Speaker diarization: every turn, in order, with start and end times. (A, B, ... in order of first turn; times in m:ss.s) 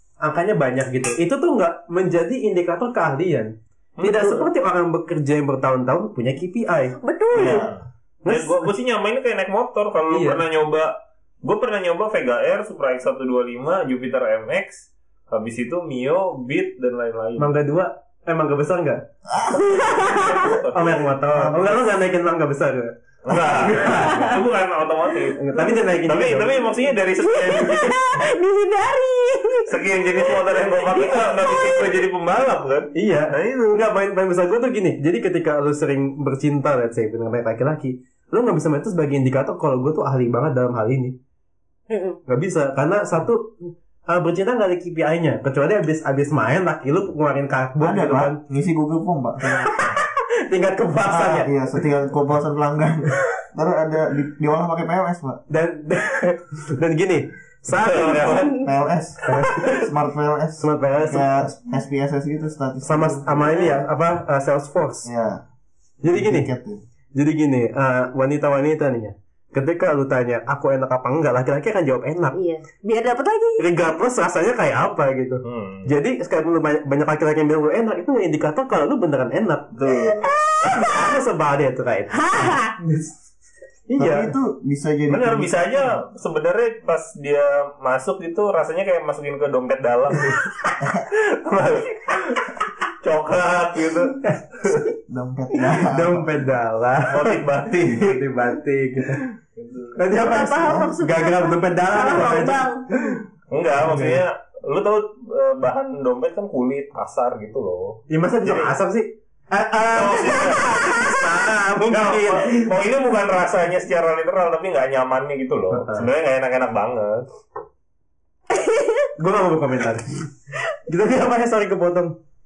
0:00.2-0:07.0 A
0:04.0-0:04.5 B
0:07.0-0:07.7 C
0:07.3-0:17.5 B
0:07.4-0:07.7 D
0:08.2-0:08.7 A
0:10.1-0:10.4 A
0:17.4-0:19.0 A
0:19.3-0:19.8 D
0:19.7-0:20.5 C
0:20.0-0:21.1 B
0:20.4-0:24.4 A
0:21.3-0:21.7 D
0:23.2-0:28.0 B
0:25.3-0:26.7 A
0:27.1-0:32.0 C
0:29.7-0:33.8 B
0:32.9-0:41.2 A
0:41.9-0:42.2 C
0:42.3-0:48.4 A
0:47.8-0:49.7 D
0:49.4-0:51.5 A
0:51.0-0:55.4 D
0:55.5-0:58.5 A
0:57.7-0:58.6 B
0:58.2-0:58.7 C
0:58.6-1:03.7 D
0:59.2-0:59.7 A
1:00.6-1:01.3 A
1:02.8-1:05.1 A
1:05.0-1:05.4 D
1:06.0-1:06.5 A
1:06.1-1:06.8 D
1:07.1-1:12.4 A
1:12.3-1:13.6 C
1:13.6-1:20.0 A
1:15.4-1:15.9 B
1:19.7-1:20.2 B
1:20.0-1:21.0 C
1:20.6-1:23.1 A
1:22.1-1:22.7 C
1:23.9-1:24.3 A
1:24.0-1:26.0 D
1:25.1-1:30.5 B
1:31.1-1:34.8 B
1:34.2-1:34.7 A
1:35.1-1:36.3 D
1:35.6-1:39.2 A
1:37.1-1:38.2 B
1:39.5-1:40.0 B
1:40.0-1:43.2 A
1:40.1-1:42.8 C
1:40.3-1:40.9 D
1:43.5-1:48.8 B
1:43.8-1:44.2 A
1:48.1-1:52.7 A
1:49.9-1:57.2 B
1:55.7-1:56.1 A
1:58.5-1:59.1 C
1:59.2-2:00.3 A
2:00.9-2:02.1 A